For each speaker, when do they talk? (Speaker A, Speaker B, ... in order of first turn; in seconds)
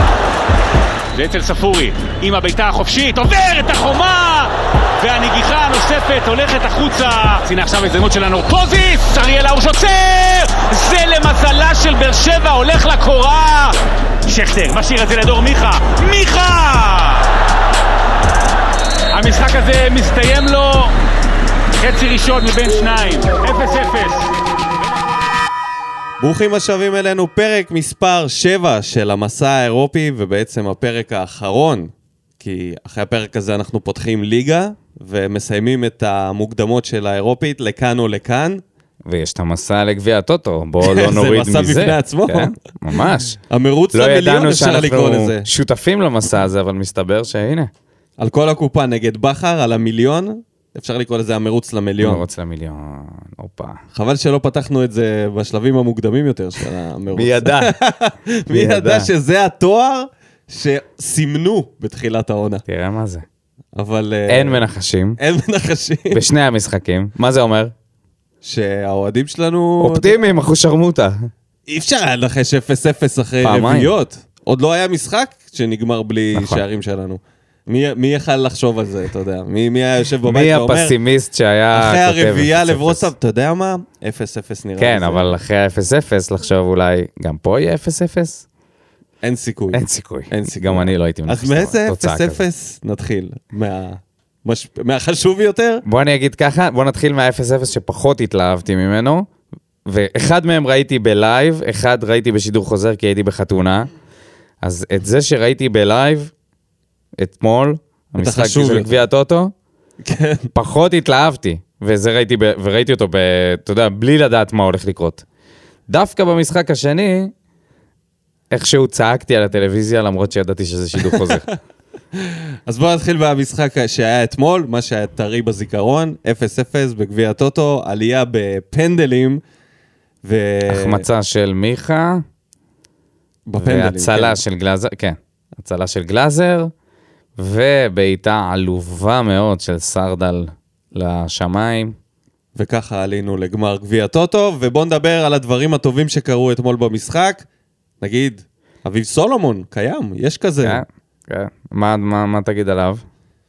Speaker A: 1.1-17.3, 19.1-20.9, 21.8-24.3
Speaker B: 26.2-38.6, 40.8-42.5, 43.5-45.5, 48.2-52.2, 53.9-62.6, 63.8-64.7, 65.2-66.2, 68.4-70.2, 71.7-81.0, 81.7-85.4, 89.2-95.8, 108.2-108.9, 110.0-110.5, 121.0-121.5, 122.2-129.4, 130.2-131.1, 133.5-134.4, 142.6-147.4, 148.0-150.8
Speaker C: 39.0-43.4, 43.9-47.7, 52.0-53.8, 57.1-57.8, 58.5-59.1, 62.7-63.2, 64.3-65.2, 66.1-67.7, 69.8-71.3, 73.4-73.9, 76.3-76.6, 80.2-83.1, 84.8-88.4, 89.7-92.4, 95.8-99.3, 99.9-103.9, 104.6-106.3, 107.2-109.5, 110.5-115.2, 115.9-117.3, 118.5-121.5, 130.7-132.2, 133.6-136.7, 137.4-142.0, 150.6-153.0